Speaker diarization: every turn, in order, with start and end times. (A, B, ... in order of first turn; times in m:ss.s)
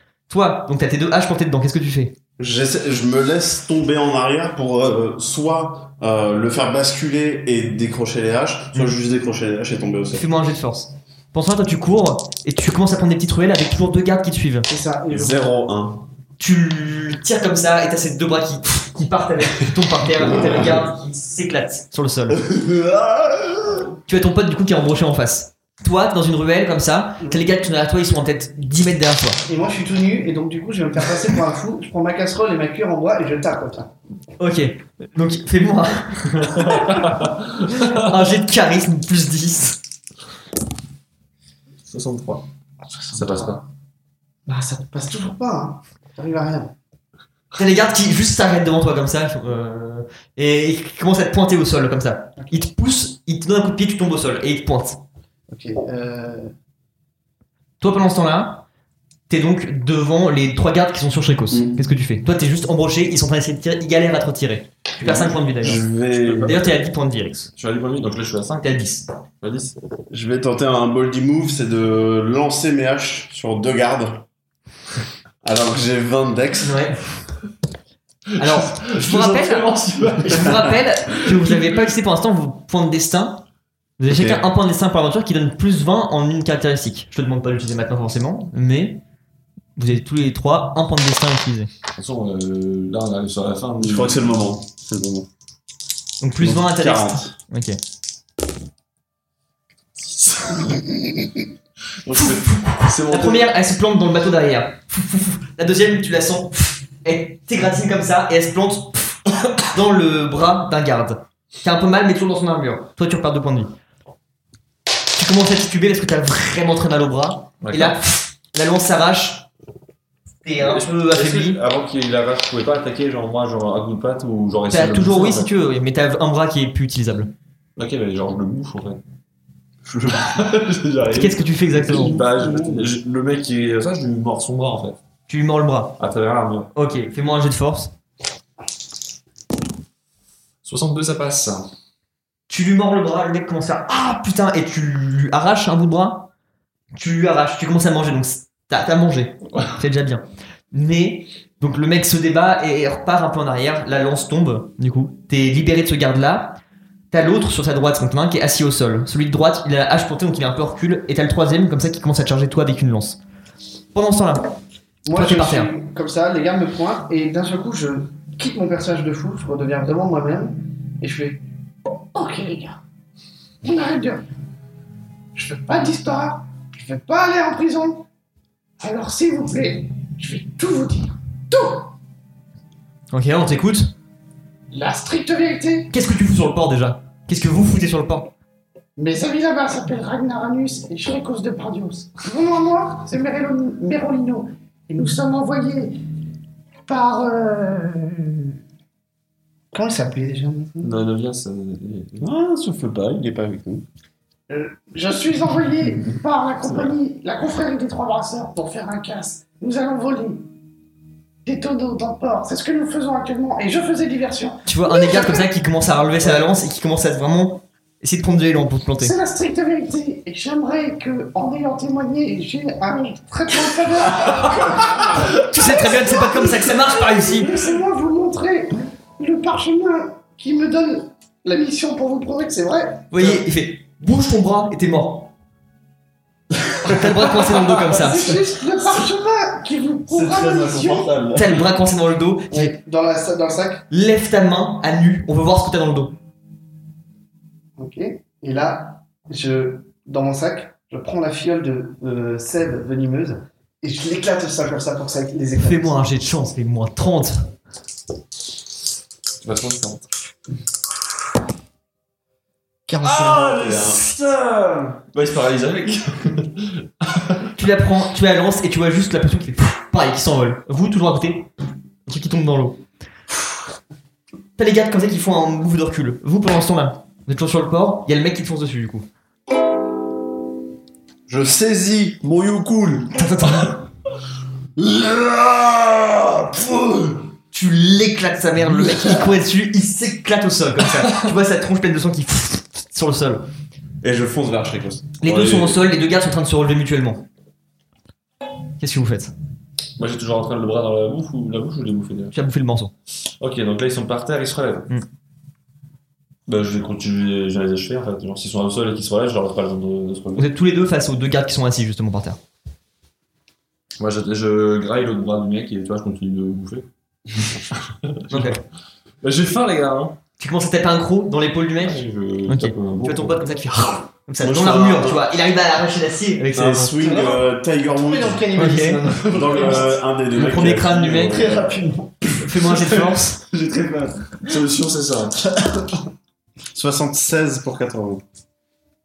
0:00.3-0:02.2 A
0:02.4-0:10.3 B
0:10.1-0:14.7 A
0:14.7-0:15.5 C
0:15.1-0:16.0 B
0:16.4-0:22.4 A
0:22.3-0:23.8 D
0:24.1-0:29.4 A
0:29.5-0:33.9 C
0:34.4-0:39.8 A
0:36.4-0:38.0 E
0:41.9-0:42.4 E
0:42.9-0:43.6 C
0:43.1-0:43.6 E
0:44.5-0:46.7 C
0:47.5-0:55.0 A
0:52.4-0:52.6 C
0:55.5-0:56.5 C
0:57.8-0:58.6 A
0:59.3-1:05.8 A
1:01.5-1:01.8 B
1:05.0-1:06.6 B
1:06.2-1:06.7 E
1:06.4-1:07.5 A
1:07.6-1:08.8 E
1:08.6-1:09.1 A
1:09.4-1:09.8 E
1:10.1-1:14.3 B
1:15.4-1:16.8 B
1:16.6-1:17.0 A
1:18.4-1:23.4 A
1:18.4-1:20.7 E
1:24.0-1:29.0 A
1:24.1-1:24.4 B
1:29.8-1:31.7 A
1:32.0-1:34.4 E
1:33.8-1:35.3 B
1:36.2-1:37.8 A
1:36.4-1:37.4 B
1:40.0-1:40.7 E
1:42.0-1:43.5 E
1:42.1-1:53.7 A
1:55.2-1:59.5 A
1:57.6-1:58.0 E
2:00.4-2:01.6 A
2:00.6-2:05.5 E
2:04.7-2:07.3 A
2:07.8-2:09.0 E
2:09.9-2:15.0 E
2:11.1-2:12.2 A
2:11.8-2:12.9 C
2:15.3-2:16.0 A
2:16.0-2:16.7 E
2:16.8-2:17.9 A
2:20.6-2:21.7 E
2:22.5-2:26.3 A
2:26.9-2:36.6 A
2:37.1-2:43.2 A
2:43.9-2:44.5 A
2:45.1-2:51.4 C
2:45.1-2:45.7 A
2:52.1-2:52.8 F
2:53.6-2:54.3 F
2:55.4-2:58.0 F
2:58.8-3:01.9 F
3:03.1-3:03.9 A
3:04.7-3:05.9 F
3:05.9-3:08.3 A
3:09.0-3:16.0 F
3:16.9-3:18.6 F
3:19.7-3:20.9 C
3:20.8-3:22.3 E
3:22.2-3:23.8 B
3:24.5-3:30.4 F
3:31.4-3:35.5 F
3:34.7-3:39.2 A
3:39.0-3:53.1 F
3:45.4-3:47.5 A
3:53.1-3:55.3 A
3:56.8-3:58.4 A
3:57.9-4:01.2 F
4:00.1-4:01.6 B
4:01.3-4:02.8 A
4:02.5-4:03.8 C
4:03.9-4:06.2 A
4:07.8-4:16.0 C
4:15.6-4:17.5 A
4:19.4-4:20.1 E
4:22.9-4:23.6 C
4:23.0-4:27.5 E
4:23.6-4:24.0 B
4:27.6-4:31.5 A
4:32.1-4:32.8 A
4:34.6-4:39.1 A
4:41.3-4:43.2 B
4:43.2-4:43.8 A
4:44.8-4:47.3 D
4:47.5-4:53.4 A
4:48.6-4:49.3 D
4:54.0-4:55.8 B
4:55.2-4:57.2 A
4:58.8-4:59.3 A
5:00.0-5:02.4 E
5:02.3-5:02.9 A
5:03.4-5:04.9 E
5:06.5-5:10.5 E
5:10.4-5:12.4 A
5:14.0-5:16.9 E
5:17.7-5:18.6 E
5:18.3-5:18.6 A
5:19.2-5:20.2 E
5:20.4-5:27.2 A
5:21.8-5:23.4 E
5:24.4-5:25.3 B
5:26.5-5:28.5 B
5:27.0-5:27.4 C
5:28.0-5:30.0 C
5:28.6-5:29.1 A
5:29.3-5:29.7 E
5:29.3-5:31.7 B
5:30.3-5:31.4 A
5:31.3-5:32.2 C
5:32.4-5:33.4 A
5:33.6-5:34.1 B
5:34.4-5:35.4 E
5:36.7-5:38.2 B